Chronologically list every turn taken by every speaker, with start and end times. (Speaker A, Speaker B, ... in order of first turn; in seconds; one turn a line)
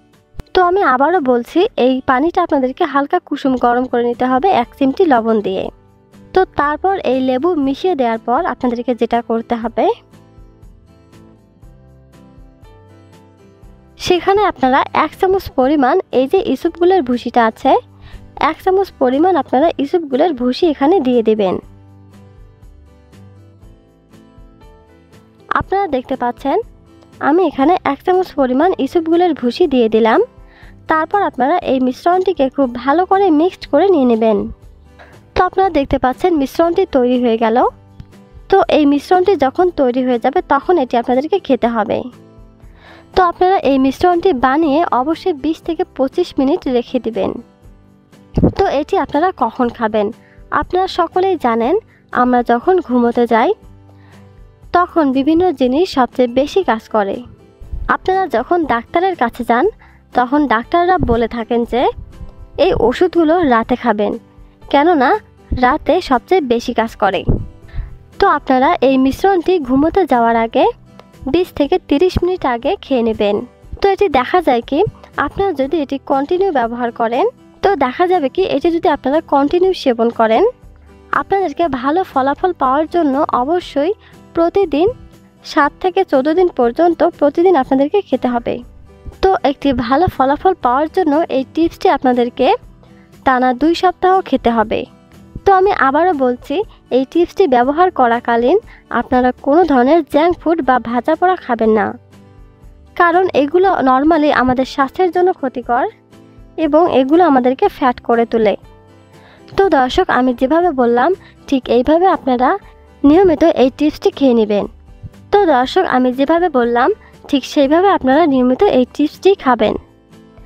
Speaker A: 0.6-5.7
Speaker A: 6.3-9.9
Speaker A: 14.1-17.8
Speaker A: 18.5-21.6
Speaker A: 25.6-26.6
Speaker A: 27.3-30.2
Speaker A: 30.9-34.4
Speaker A: 35.4-37.7
Speaker A: 38.5-42.0
Speaker A: 43.2-47.4
Speaker A: 48.5-50.1
Speaker A: 50.6-53.5
Speaker A: 54.8-57.2
Speaker A: 57.9-61.8
Speaker A: 62.6-64.2
Speaker A: 64.7-65.1
Speaker A: 65.7-67.2
Speaker A: 68.2-70.7
Speaker A: 71.3-80.5
Speaker A: 81.2-84.9
Speaker A: 85.5-88.6
Speaker A: 89.2-92.5
Speaker A: 93.3-94.8
Speaker A: 95.5-101.9
Speaker A: 103.0-105.9
Speaker A: 106.6-108.6
Speaker A: 109.6-112.5
Speaker A: 113.1-114.7
Speaker A: 115.3-119.8